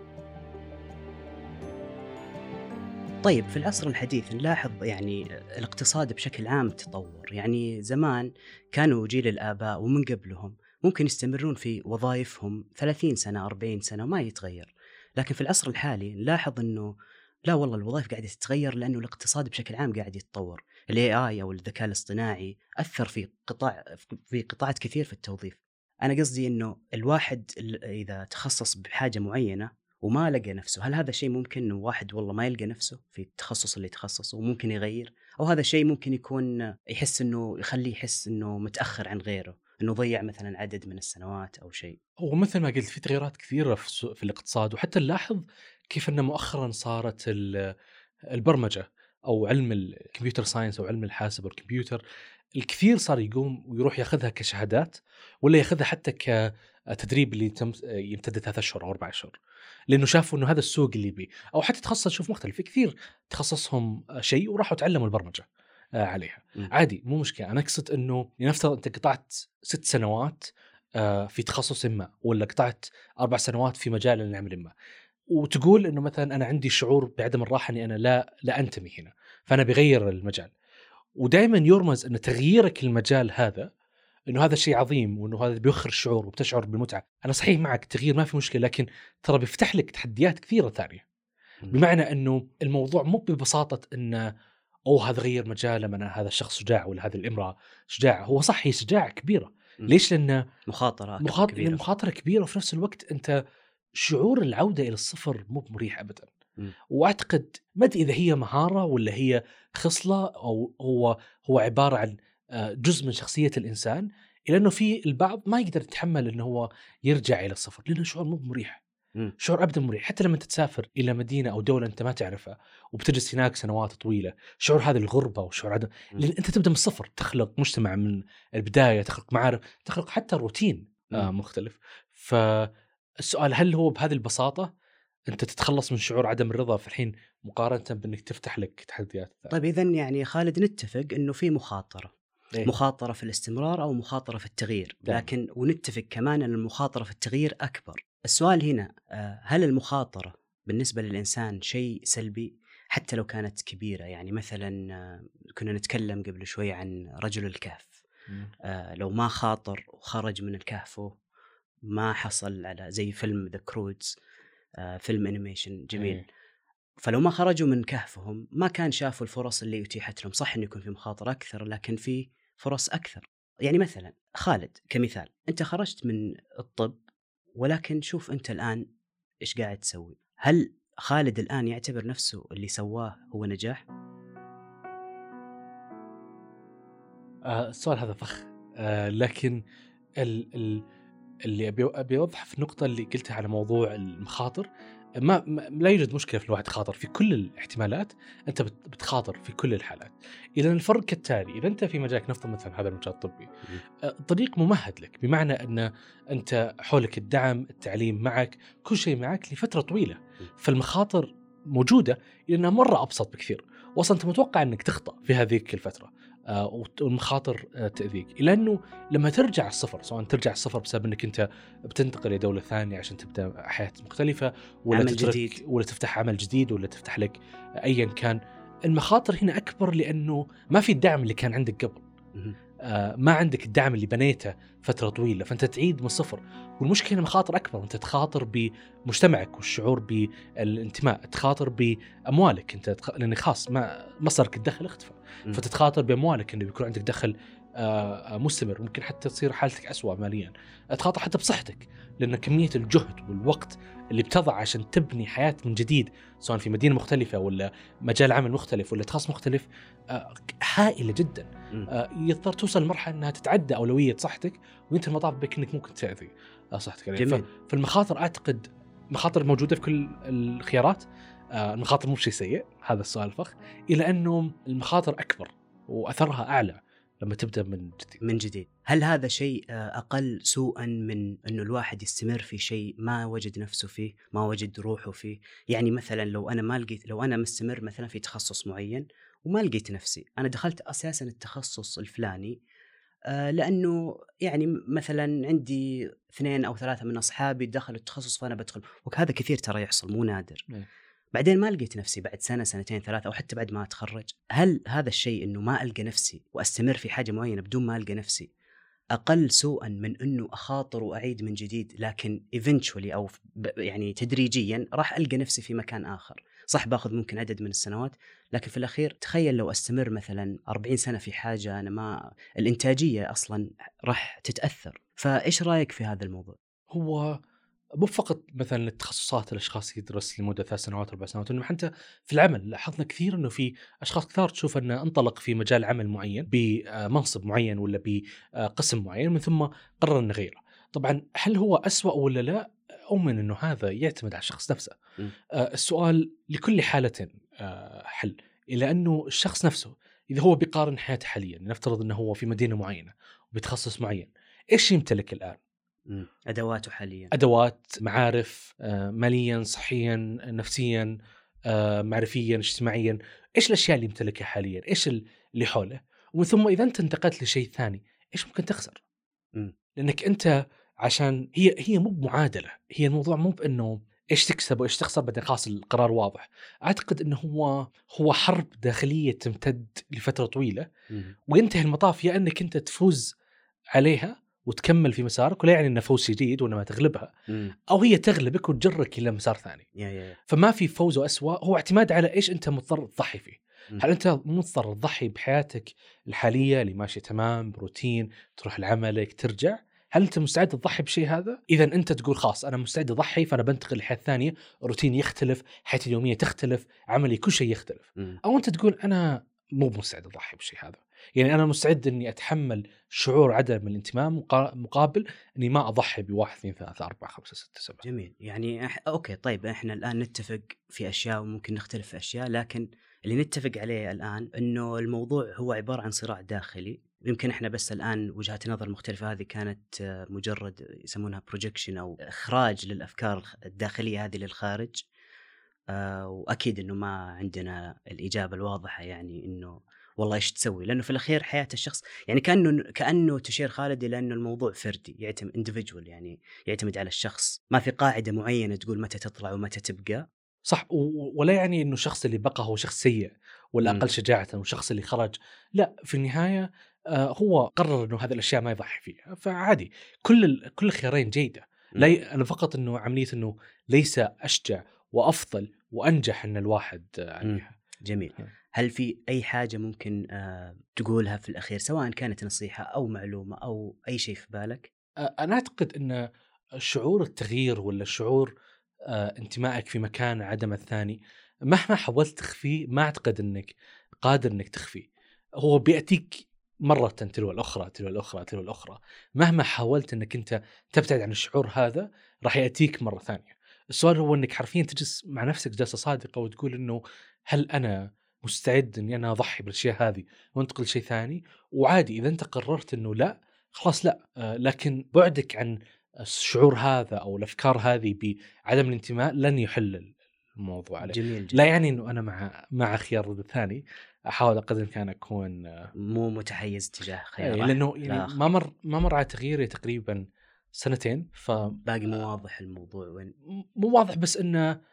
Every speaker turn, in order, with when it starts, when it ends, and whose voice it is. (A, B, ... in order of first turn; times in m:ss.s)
0:03.2-0:16.9 A
0:17.5-0:42.0 A
0:42.2-0:47.6 B
0:48.4-0:52.0 B
0:52.6-0:56.4 B
0:56.9-0:59.4 B
0:59.9-1:05.4 B
1:06.0-1:14.7 B
1:15.3-1:20.5 B
1:21.2-1:23.7 B
1:24.3-1:31.0 B
1:31.7-1:34.3 B
1:34.9-1:40.4 B
1:40.7-1:41.8 A
1:41.2-1:43.4 B
1:44.0-1:46.3 B
1:46.9-1:58.8 B
1:59.4-2:12.7 B
2:13.3-2:14.7 B
2:15.3-2:19.5 B
2:19.5-2:22.1 A
2:22.6-2:38.0 A
2:38.7-2:41.1 A
2:41.9-2:44.1 A
2:44.8-2:46.2 A
2:45.9-2:46.2 B
2:47.0-2:57.0 A
2:57.6-2:58.8 A
2:59.4-3:03.8 A
3:07.5-3:09.6 B
3:10.2-3:10.8 B
3:11.5-3:14.7 B
3:15.2-3:23.5 B
3:24.1-3:48.4 B
3:44.9-3:45.6 A
3:48.9-3:52.0 B
3:52.9-4:31.0 B
4:27.2-4:27.5 A
4:31.6-4:38.2 B
4:38.2-4:52.6 A
4:53.3-5:00.7 A
5:01.3-5:08.5 A
5:09.2-5:26.6 A
5:26.9-5:27.4 B
5:28.0-5:45.0 B
5:45.6-5:55.6 B
5:56.1-5:57.3 A
5:57.3-6:01.1 B
6:01.7-6:09.0 B
6:10.0-6:10.5 B
6:11.0-6:20.9 B
6:21.1-6:21.4 A
6:21.5-6:23.3 B
6:24.0-6:27.3 B
6:27.9-6:29.8 B
6:30.0-6:30.4 A
6:30.5-6:58.0 B
6:58.0-7:15.0 A
7:15.9-7:30.2 A
7:30.7-7:47.8 B
7:47.4-7:54.9 A
7:55.3-7:56.2 B
7:56.8-7:58.5 B
7:59.1-8:01.2 B
8:01.7-8:05.1 B
8:05.6-8:17.0 B
8:17.5-8:35.9 B
8:31.0-8:31.6 A
8:36.0-8:38.4 A
8:37.4-8:40.2 B
8:40.8-8:41.8 B
8:41.9-8:43.3 A
8:43.6-8:44.7 B